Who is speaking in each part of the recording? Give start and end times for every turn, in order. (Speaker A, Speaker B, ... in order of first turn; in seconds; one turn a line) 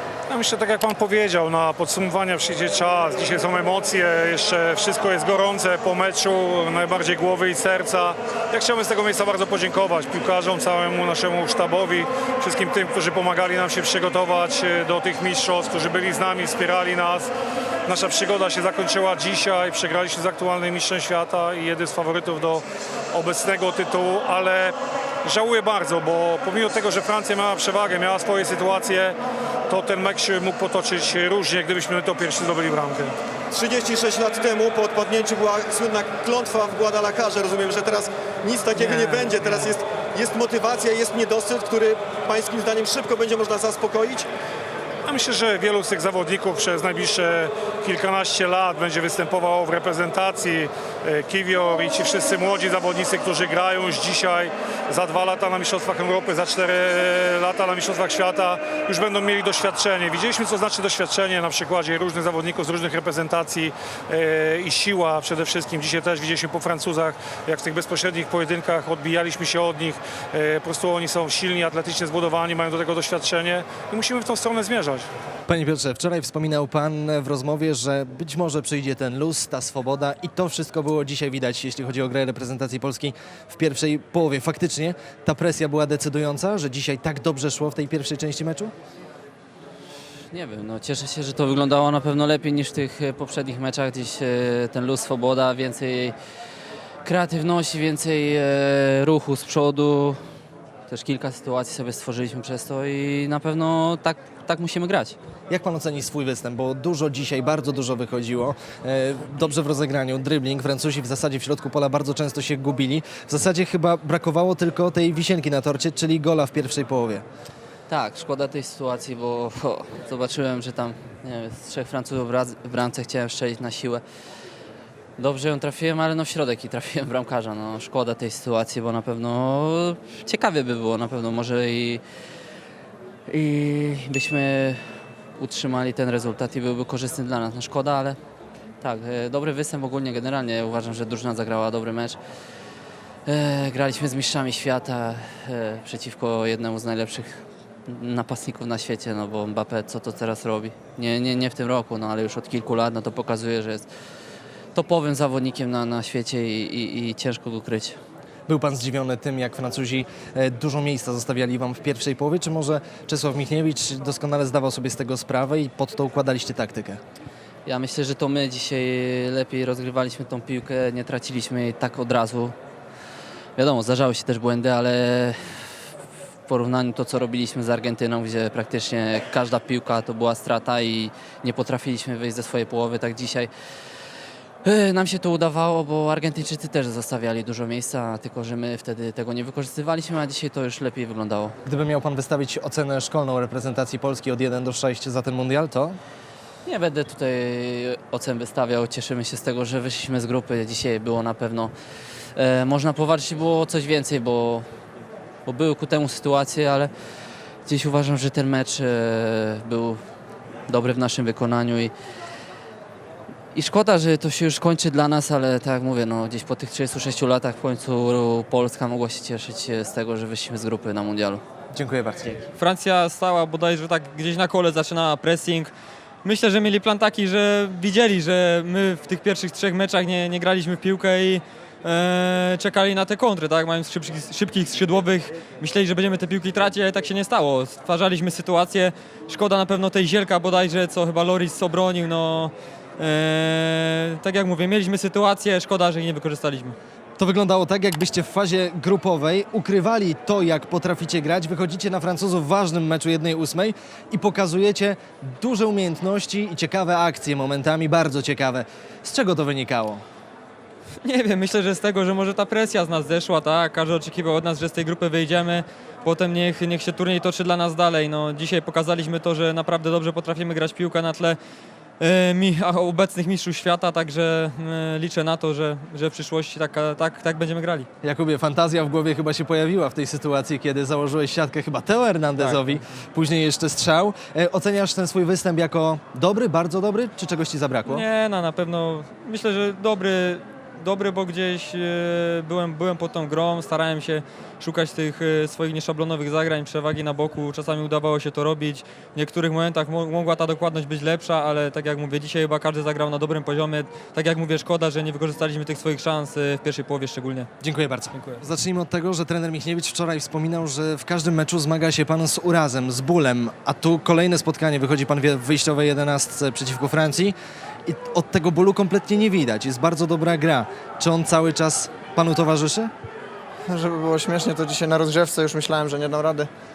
Speaker A: 0.3-17.3
Speaker A: 17.9-29.2
Speaker A: 29.7-33.1
Speaker B: 33.5-44.3
Speaker A: 38.8-39.7
Speaker A: 45.0-75.1
Speaker C: 75.5-88.7
Speaker D: 90.3-96.1
Speaker D: 97.0-100.2
Speaker D: 100.9-105.2
Speaker C: 105.5-117.2
Speaker D: 117.9-124.0
Speaker D: 125.2-132.0
Speaker D: 133.3-134.8
Speaker D: 135.4-138.2
Speaker D: 138.8-142.2
Speaker D: 143.2-153.9
Speaker D: 154.8-158.0
Speaker C: 158.5-167.0
Speaker D: 167.7-172.6
Speaker D: 173.6-175.3
Speaker D: 176.5-183.5
Speaker D: 184.6-191.6
Speaker C: 191.6-196.0
Speaker D: 196.6-201.7
Speaker D: 202.3-204.6
Speaker D: 205.4-206.9
Speaker D: 207.7-210.0
Speaker D: 210.7-211.9
Speaker D: 213.5-221.4
Speaker C: 221.7-222.4
Speaker E: 222.6-225.7
Speaker E: 226.2-246.8
Speaker C: 247.2-260.1
Speaker E: 261.0-271.4
Speaker E: 272.0-277.9
Speaker C: 278.0-288.1
Speaker E: 282.4-282.6
Speaker E: 287.9-307.5
Speaker C: 307.6-317.3
Speaker E: 308.1-308.4
Speaker C: 317.9-322.9
Speaker F: 323.7-326.5